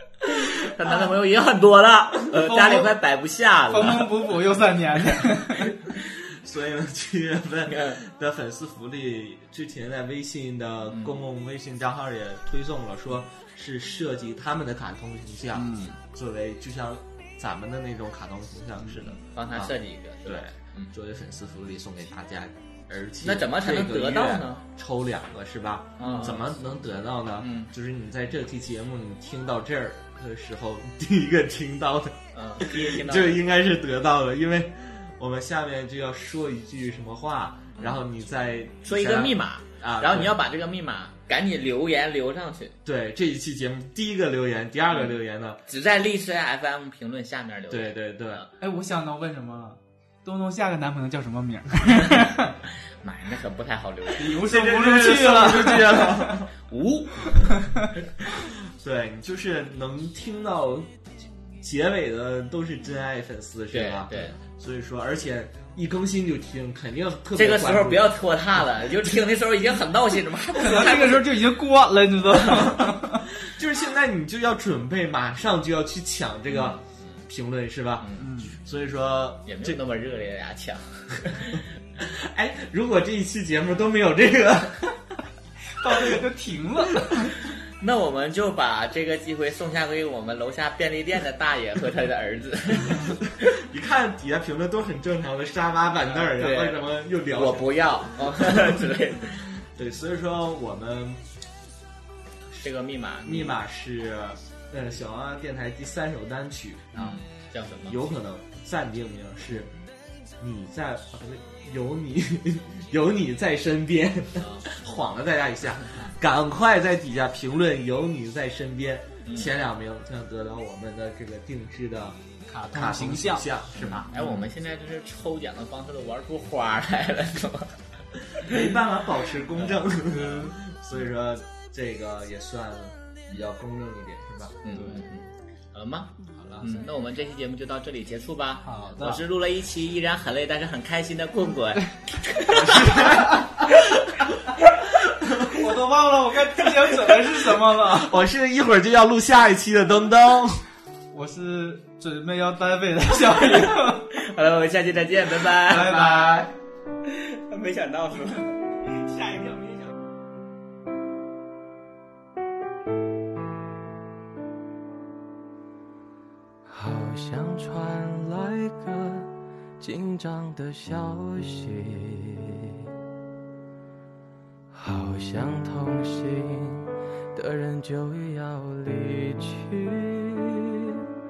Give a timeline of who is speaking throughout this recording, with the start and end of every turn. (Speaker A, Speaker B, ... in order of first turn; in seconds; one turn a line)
Speaker A: 0.2-4.3
Speaker B: 2.3-2.9
Speaker B: 3.7-5.7
Speaker C: 6.1-40.4
Speaker A: 7.7-8.0
Speaker A: 10.9-11.2
Speaker B: 15.6-16.0
Speaker A: 19.1-20.9
Speaker A: 23.2-24.6
Speaker A: 26.0-26.4
Speaker B: 26.0-26.4
Speaker A: 27.4-27.7
Speaker A: 32.3-33.4
Speaker A: 38.9-42.8
Speaker C: 42.9-45.6
Speaker A: 45.7-48.5
Speaker C: 47.7-48.5
Speaker B: 48.6-52.5
Speaker A: 52.0-52.3
Speaker A: 53.0-54.4
Speaker B: 54.2-56.4
Speaker C: 54.4-56.5
Speaker A: 56.7-57.5
Speaker B: 57.4-57.9
Speaker C: 58.3-61.0
Speaker C: 61.6-68.2
Speaker A: 63.7-64.4
Speaker A: 67.3-71.4
Speaker B: 70.6-73.3
Speaker C: 73.4-79.8
Speaker A: 76.5-77.1
Speaker A: 78.0-78.3
Speaker B: 78.2-78.6
Speaker A: 79.5-81.7
Speaker C: 82.0-84.9
Speaker B: 85.8-87.3
Speaker A: 87.8-93.5
Speaker C: 92.8-98.8
Speaker A: 96.0-99.6
Speaker C: 99.8-101.2
Speaker A: 102.5-103.6
Speaker C: 103.2-107.2
Speaker A: 107.0-108.1
Speaker C: 107.9-109.7
Speaker C: 110.4-122.2
Speaker A: 114.4-115.0
Speaker A: 119.2-119.5
Speaker B: 122.5-123.5
Speaker C: 122.7-124.2
Speaker A: 123.8-128.6
Speaker C: 128.4-134.6
Speaker B: 129.7-130.6
Speaker A: 130.1-130.5
Speaker A: 134.6-143.2
Speaker B: 134.7-135.1
Speaker B: 136.3-136.7
Speaker B: 138.6-139.2
Speaker C: 142.5-144.1
Speaker C: 145.2-145.5
Speaker B: 145.5-148.1
Speaker C: 147.7-150.6
Speaker B: 151.1-154.1
Speaker A: 153.4-156.1
Speaker B: 155.7-156.5
Speaker C: 155.7-156.5
Speaker A: 157.1-159.9
Speaker D: 166.7-172.8
Speaker D: 174.7-181.0